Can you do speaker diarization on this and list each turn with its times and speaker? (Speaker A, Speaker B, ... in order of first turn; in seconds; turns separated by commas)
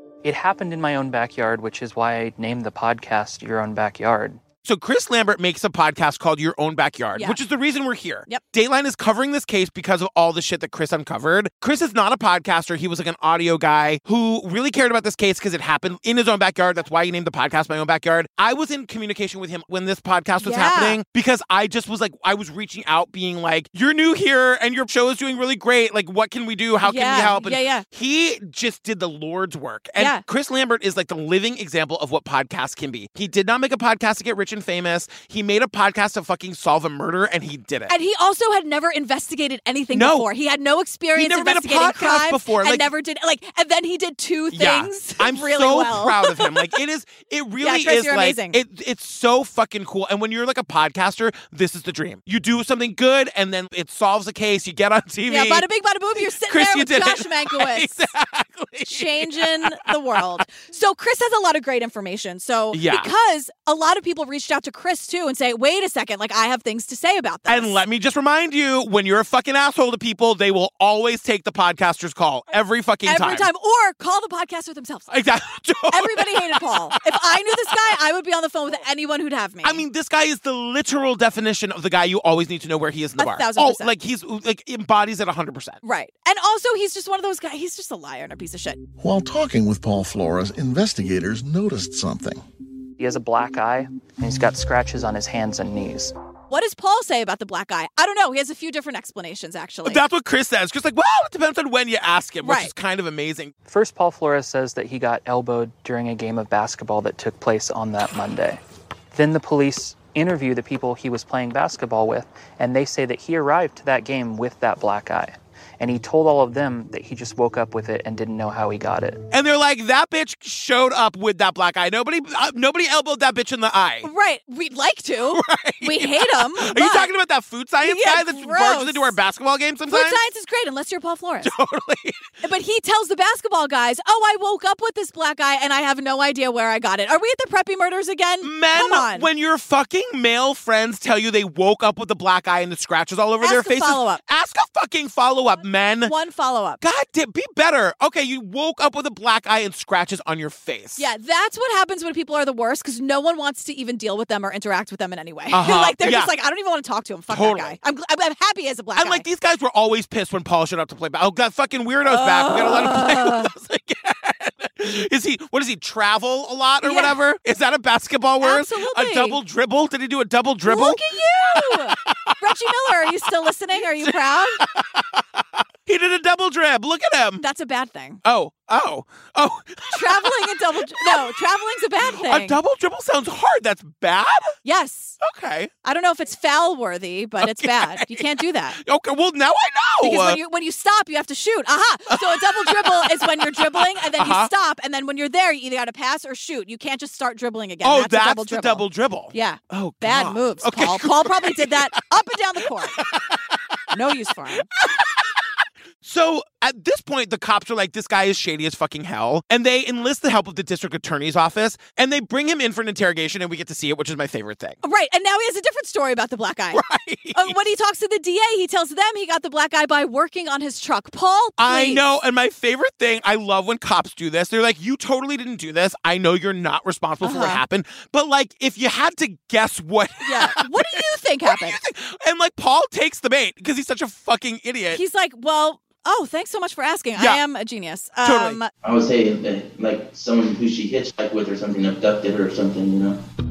Speaker A: 0.2-4.4, Speaker B: 4.6-37.9, Speaker C: 20.4-21.0, Speaker C: 26.8-27.8, Speaker C: 30.0-30.2, Speaker C: 37.9-46.8, Speaker B: 39.9-40.3, Speaker B: 41.1-42.9, Speaker B: 44.5-55.6, Speaker C: 47.6-48.6, Speaker C: 55.3-58.1, Speaker B: 56.4-60.4, Speaker C: 58.9-67.8, Speaker B: 62.7-63.1, Speaker B: 67.5-73.5, Speaker C: 73.0-75.1, Speaker B: 75.1-77.7, Speaker C: 75.9-79.8, Speaker B: 79.6-85.8, Speaker C: 83.2-83.9, Speaker C: 85.8-88.8, Speaker D: 89.0-92.4, Speaker A: 93.0-96.1, Speaker C: 96.5-100.0, Speaker B: 99.8-103.5, Speaker C: 102.4-102.7, Speaker A: 103.7-108.6, Speaker A: 109.1-119.2, Speaker B: 119.3-124.1, Speaker C: 124.0-127.1, Speaker B: 125.3-130.2, Speaker C: 127.8-129.2, Speaker C: 129.9-131.5, Speaker B: 131.4-132.2, Speaker C: 132.4-139.3, Speaker B: 138.4-146.1, Speaker C: 143.4-144.2, Speaker C: 146.1-146.8, Speaker B: 146.8-151.1, Speaker C: 151.0-159.2, Speaker B: 155.5-156.3, Speaker B: 157.3-157.8, Speaker B: 159.0-172.3, Speaker C: 162.1-163.5, Speaker C: 166.8-167.2, Speaker C: 168.4-169.4, Speaker C: 170.7-174.6, Speaker B: 174.0-175.2, Speaker B: 175.8-177.4, Speaker C: 177.4-178.2, Speaker B: 178.2-181.4, Speaker C: 179.9-182.6, Speaker B: 182.0-184.5, Speaker C: 184.6-185.2, Speaker B: 185.2-185.7, Speaker C: 185.8-188.8, Speaker B: 187.4-188.2, Speaker B: 188.7-190.4, Speaker C: 190.0-203.0, Speaker B: 192.1-194.5, Speaker B: 197.8-202.0, Speaker B: 202.8-203.4, Speaker C: 203.9-204.7, Speaker B: 204.8-205.4, Speaker B: 206.0-214.8, Speaker C: 214.8-216.8, Speaker B: 216.7-217.6, Speaker C: 217.3-222.0, Speaker B: 221.6-235.0, Speaker C: 227.2-227.6, Speaker C: 230.2-231.8, Speaker C: 234.9-238.7, Speaker B: 238.2-238.6, Speaker E: 238.8-243.2